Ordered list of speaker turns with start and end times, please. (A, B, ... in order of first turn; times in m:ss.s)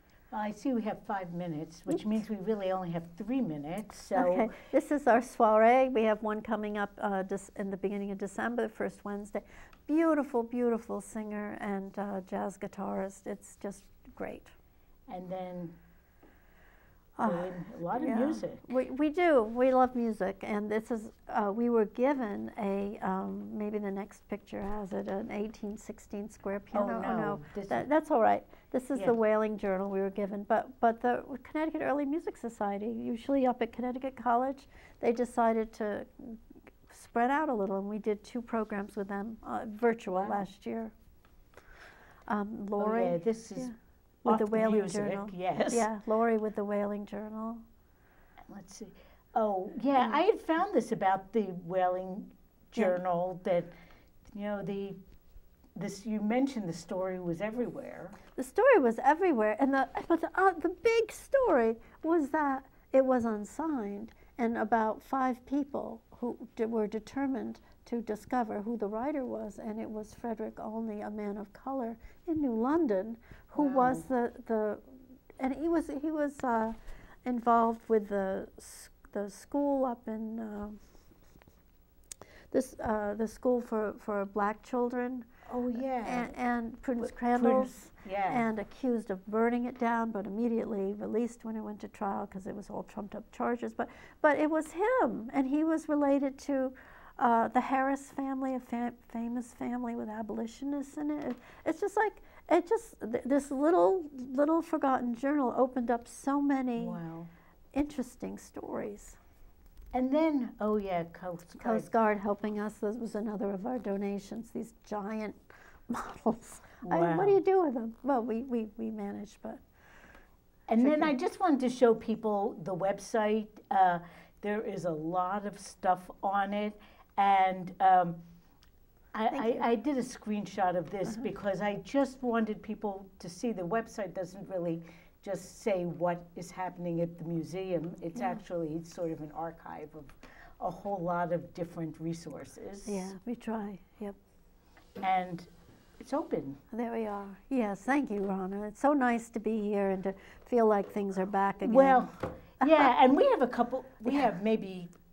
0:00.3-0:04.5 A
0:04.2-0:14.5 B
0:15.1-0:15.8 A
0:17.2-0:40.9 B
0:17.2-0:18.6 A
0:26.7-0:27.8 A
0:40.1-0:40.4 A
0:42.3-0:47.6 B
0:42.8-0:43.7 A
0:44.2-0:45.9 A
0:48.5-0:53.7 A
0:54.3-0:55.0 A
0:55.8-0:58.2 A
0:58.4-1:20.8 B
1:13.6-1:14.1 A
1:22.5-1:25.3 B
1:25.5-1:26.3 A
1:26.0-1:47.0 B
1:27.0-1:28.5 A
1:46.8-1:47.3 A
1:47.7-1:49.2 B
1:49.9-1:51.9 A
1:51.6-1:59.6 B
1:56.8-1:57.4 A
2:00.7-2:08.2 A
2:00.8-2:01.1 B
2:09.1-2:23.1 A
2:09.3-2:09.6 B
2:22.9-2:24.2 B
2:25.0-2:26.6 A
2:26.7-2:32.1 B
2:31.6-2:34.9 A